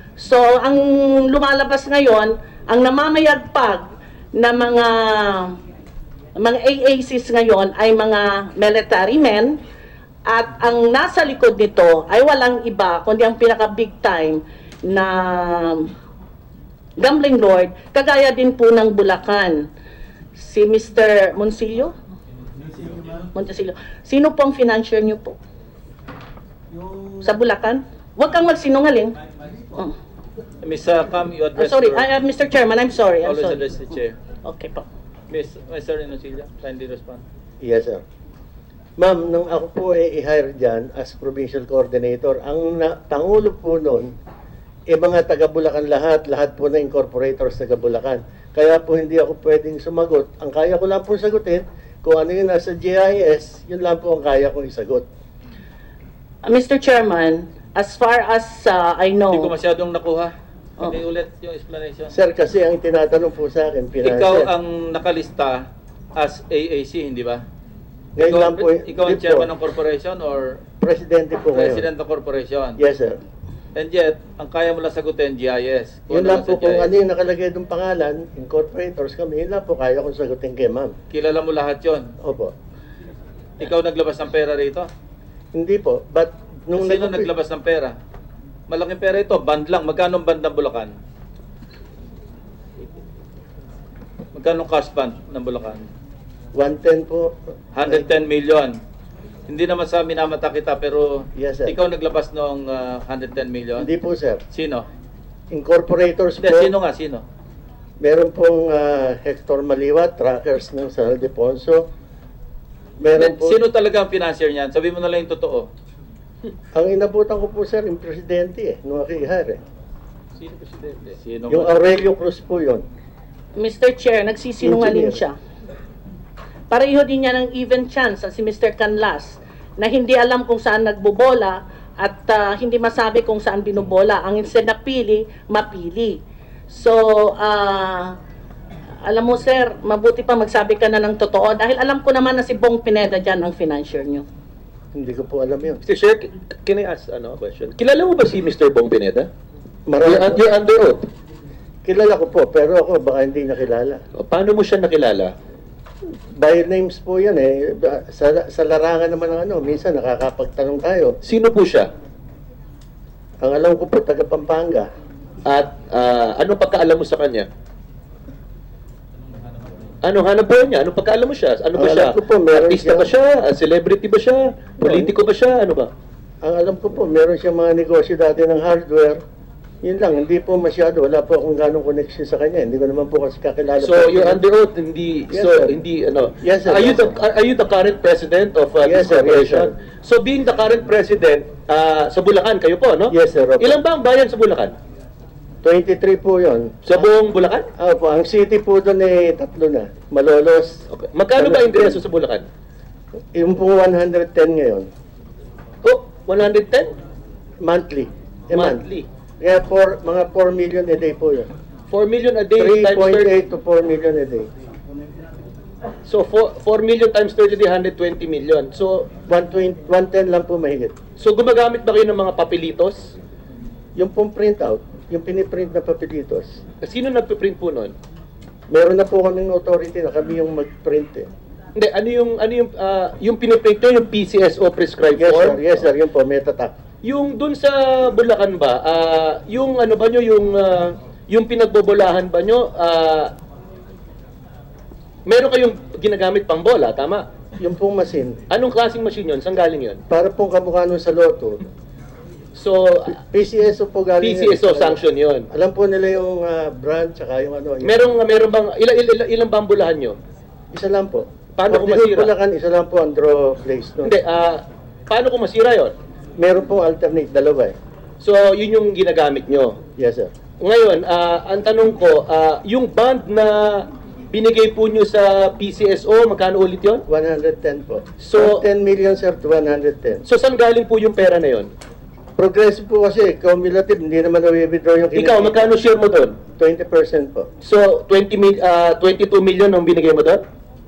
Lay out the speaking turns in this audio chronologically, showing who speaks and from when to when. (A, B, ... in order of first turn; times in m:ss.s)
0:00.2-0:05.6 A
0:06.4-0:09.6 A
0:10.2-0:15.9 A
0:17.0-0:19.7 A
0:20.3-0:21.9 A
0:23.3-0:25.4 A
0:27.2-0:29.2 A
0:30.6-0:32.0 B
0:31.6-0:33.7 A
0:33.2-0:34.2 B
0:34.4-0:34.8 A
0:35.3-0:37.2 B
0:37.6-0:38.0 C
0:39.0-0:44.1 C
0:44.9-0:55.0 C
0:56.4-0:59.5 A
0:59.3-1:02.1 B
1:02.1-1:04.5 C
1:04.0-1:05.6 B
1:06.1-1:07.4 B
1:08.2-1:09.5 C
1:08.2-1:10.6 B
1:10.8-1:11.9 C
1:11.5-1:12.8 B
1:12.8-1:13.2 C
1:13.7-1:16.9 B
1:16.1-1:20.9 C
1:21.1-1:22.1 B
1:22.2-1:22.5 C
1:23.6-1:24.9 B
1:25.5-1:27.3 C
1:26.8-1:27.9 B
1:28.7-1:30.9 B
1:34.3-1:35.9 B
1:36.5-1:38.1 C
1:37.7-1:38.7 B
1:39.5-1:43.9 B
1:41.3-1:41.8 C
1:43.8-1:44.4 C
1:44.5-1:44.9 B
1:45.5-1:46.7 C
1:46.4-1:47.2 B
1:48.0-1:51.9 C
1:53.0-1:53.6 C
1:53.2-1:55.7 B
1:56.7-1:59.6 C
2:00.4-2:01.7 B
2:01.5-2:02.8 C
2:03.6-2:05.4 A
2:04.6-2:05.2 C
2:06.7-2:18.2 A
2:19.0-2:24.2 A
2:24.9-2:25.8 C
2:25.8-2:29.3 D
2:29.9-2:30.4 C
2:30.0-2:31.0 D
2:31.8-2:34.0 C
2:34.2-2:35.3 D
2:36.3-2:41.2 C
2:41.2-2:41.9 D
2:43.4-2:44.9 C
2:45.4-2:47.5 D
2:50.0-2:55.9 D
2:51.7-2:53.1 C
2:54.8-2:55.1 C
2:56.4-2:59.2 C
2:59.8-3:04.4 C
3:03.8-3:14.7 D
3:05.3-3:05.7 C
3:06.4-3:07.2 C
3:08.8-3:09.7 C
3:13.1-3:13.8 C
3:15.6-3:17.1 C
3:16.8-3:17.6 D
3:17.8-3:20.8 C
3:20.9-3:22.4 D
3:21.4-3:22.0 C
3:23.3-3:24.9 C
3:25.8-3:26.9 D
3:27.6-3:28.8 C
3:28.5-3:29.1 D
3:29.4-3:31.5 C
3:31.9-3:33.3 D
3:32.6-3:34.5 C
3:36.0-3:39.1 D
3:39.3-3:40.9 C
3:41.2-3:43.2 D
3:44.0-3:46.6 C
3:46.8-3:47.9 D
3:48.7-3:51.3 C
3:51.8-3:55.8 D
3:55.2-3:56.7 C
3:57.0-4:03.3 D
4:05.2-4:07.3 D
4:07.6-4:08.4 C
4:08.5-4:10.0 D
4:10.1-4:11.6 C
4:12.6-4:13.2 D
4:13.1-4:15.0 C
4:14.2-4:15.5 D
4:15.5-4:18.1 C
4:17.8-4:20.2 D
4:20.7-4:24.1 C
4:21.6-4:22.3 D
4:24.0-4:25.9 D
4:26.4-4:27.8 C
4:28.2-4:29.8 D
4:30.0-4:30.3 C
4:30.6-4:37.0 D
4:37.1-4:40.2 C
4:38.2-4:38.6 D
4:40.2-4:41.7 D
4:42.4-4:45.7 C
4:45.1-4:46.4 D
4:46.6-4:47.5 C
4:47.6-4:50.4 D